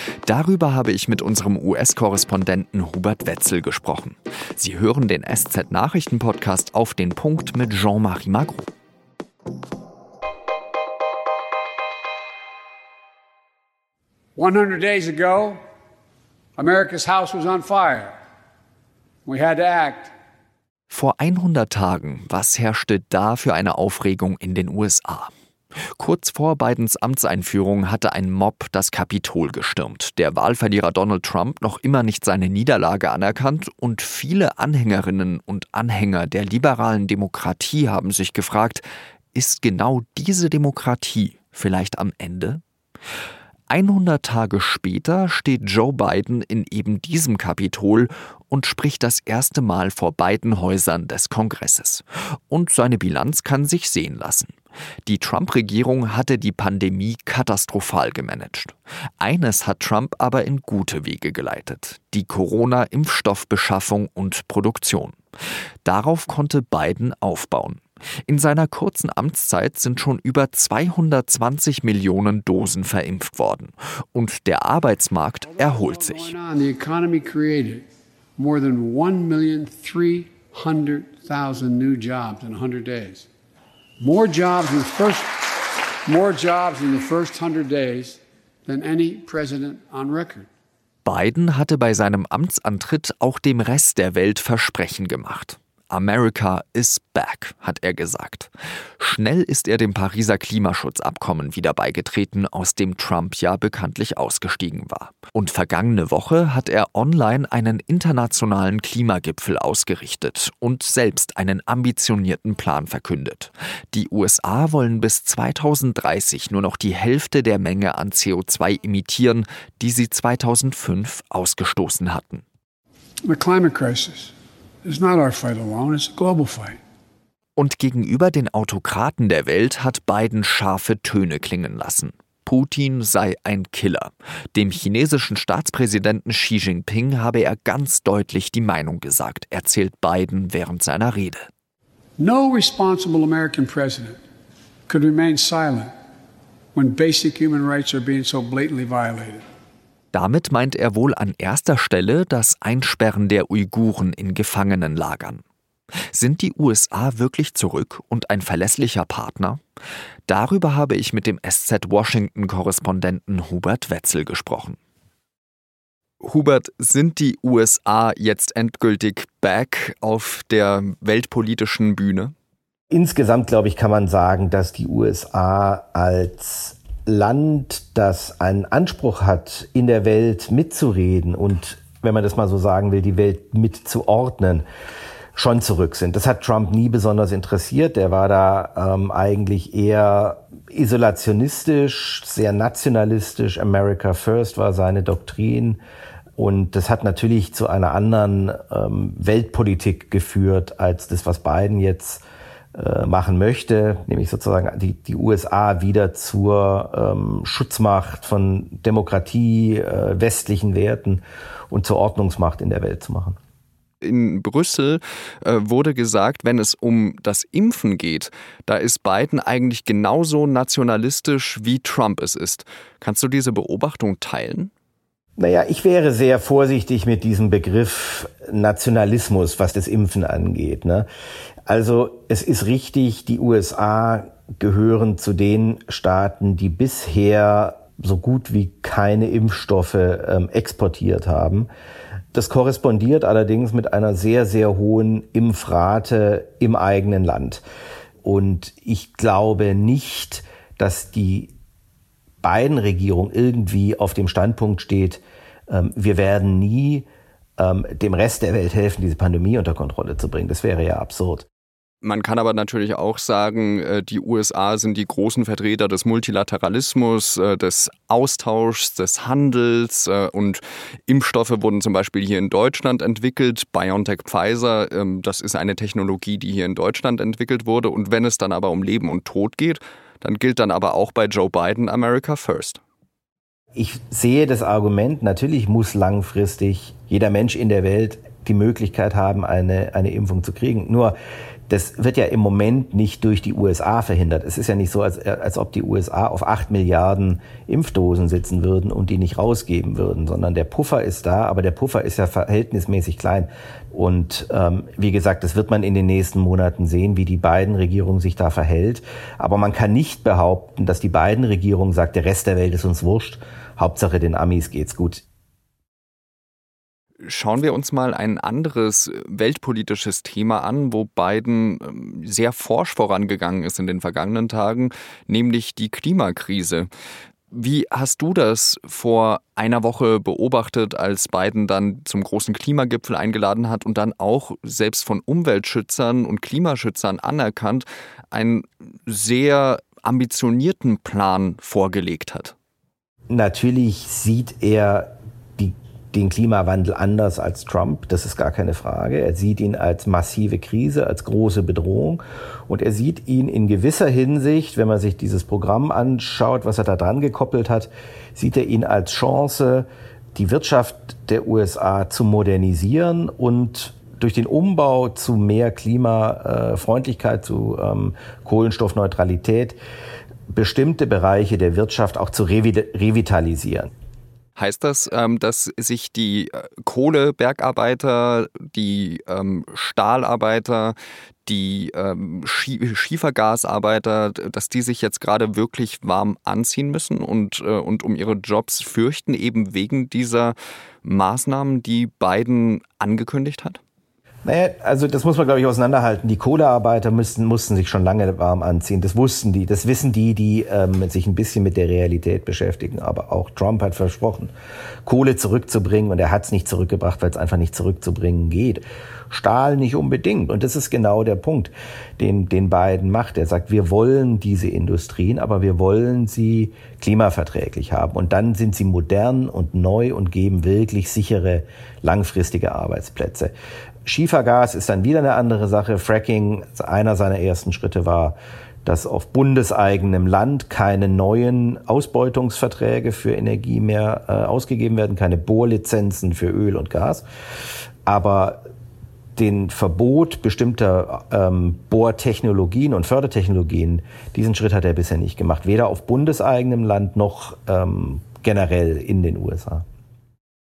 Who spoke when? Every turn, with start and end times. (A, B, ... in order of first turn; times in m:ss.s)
0:00.3-0:08.7 A
0:14.4-0:15.6 B
0:16.6-0:18.2 B
0:19.2-0:20.1 B
0:20.9-0:25.3 A
0:26.0-0:42.6 A
0:43.7-1:05.2 A
1:05.8-1:16.3 A
1:15.6-1:23.3 B
1:24.0-1:30.5 B
1:31.0-2:02.4 A
2:03.2-2:04.3 B
2:04.8-2:06.8 B
2:07.6-2:21.5 A
2:22.2-2:24.2 B
2:24.9-2:25.9 B
2:26.7-2:29.4 B
2:30.1-2:35.4 A
2:36.1-2:39.6 A
2:40.3-2:44.8 A
2:46.2-2:52.3 A
2:52.9-3:04.6 C
3:05.4-3:15.8 C
3:16.4-3:22.2 C
3:22.8-3:33.4 C
3:34.0-3:44.7 A
3:45.4-3:51.1 C
3:51.7-4:01.7 C
4:02.3-4:07.6 C
4:08.2-4:11.5 C
4:12.4-4:17.1 C
4:17.6-4:21.5 C
4:22.0-4:42.8 A
4:43.8-4:51.2 C
4:51.7-5:15.2 C
5:17.2-5:26.9 A
5:27.5-5:42.6 A
5:43.3-6:09.8 C
6:10.5-6:13.9 C
6:14.6-6:21.0 A
6:21.5-6:33.8 A
6:34.4-6:44.5 C
6:45.1-7:03.5 C
7:04.1-7:17.2 C
7:18.1-7:18.6 C
7:19.4-7:29.8 C